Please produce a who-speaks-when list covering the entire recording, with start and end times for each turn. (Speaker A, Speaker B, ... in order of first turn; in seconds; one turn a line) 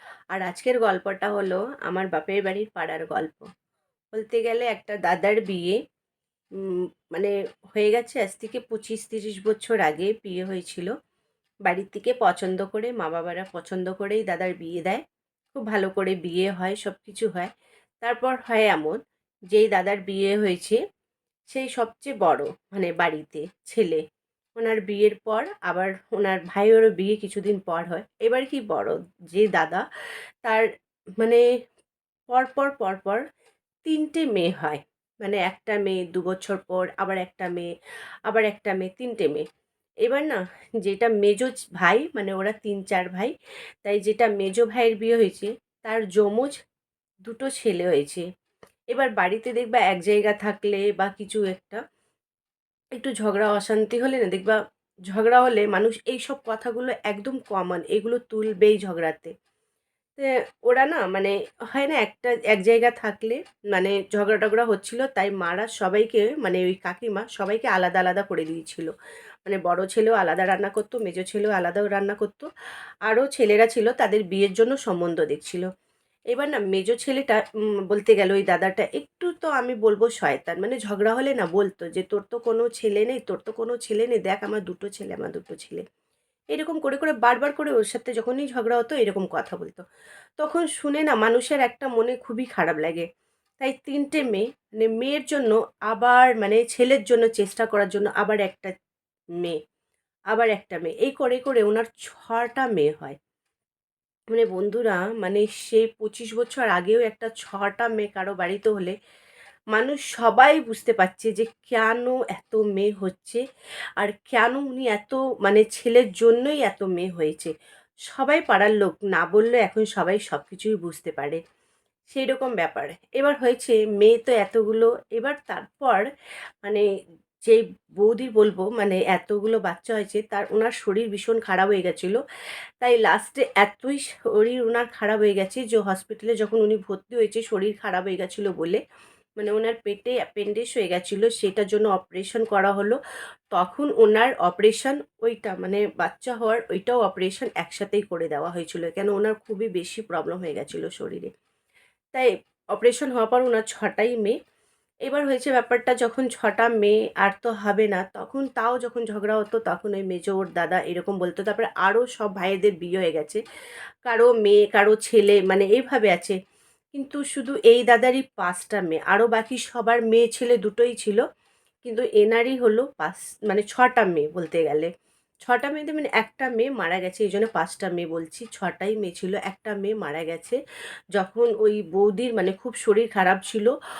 Speaker A: 0.3-3.5
Speaker A: 4.1-5.8
Speaker A: 6.6-10.9
Speaker A: 11.7-15.0
Speaker A: 15.5-17.5
Speaker A: 18.0-19.0
Speaker A: 19.5-20.8
Speaker A: 21.5-24.0
Speaker A: 24.6-29.8
Speaker A: 32.3-33.2
Speaker A: 33.9-37.7
Speaker A: 38.3-39.4
Speaker A: 40.0-43.3
Speaker A: 43.8-46.5
Speaker A: 47.2-48.2
Speaker A: 48.9-51.8
Speaker A: 53.0-54.6
Speaker A: 55.1-59.3
Speaker A: 60.2-68.9
Speaker A: 69.4-72.5
Speaker A: 73.0-75.7
Speaker A: 76.3-77.4
Speaker A: 77.9-85.8
Speaker A: 86.5-89.8
Speaker A: 90.4-93.1
Speaker A: 93.6-98.7
Speaker A: 100.3-103.2
Speaker A: 104.3-108.9
Speaker A: 109.7-113.4
Speaker A: 114.0-117.5
Speaker A: 118.1-121.4
Speaker A: 122.1-126.0
Speaker A: 127.5-132.2
Speaker A: 132.8-138.8
Speaker A: 139.4-143.0
Speaker A: 143.5-151.3
Speaker A: 152.1-154.3
Speaker A: 155.1-163.4
Speaker A: 164.1-166.4
Speaker A: 166.9-171.2
Speaker A: 171.8-174.9
Speaker A: 175.4-180.6
Speaker A: 181.1-183.7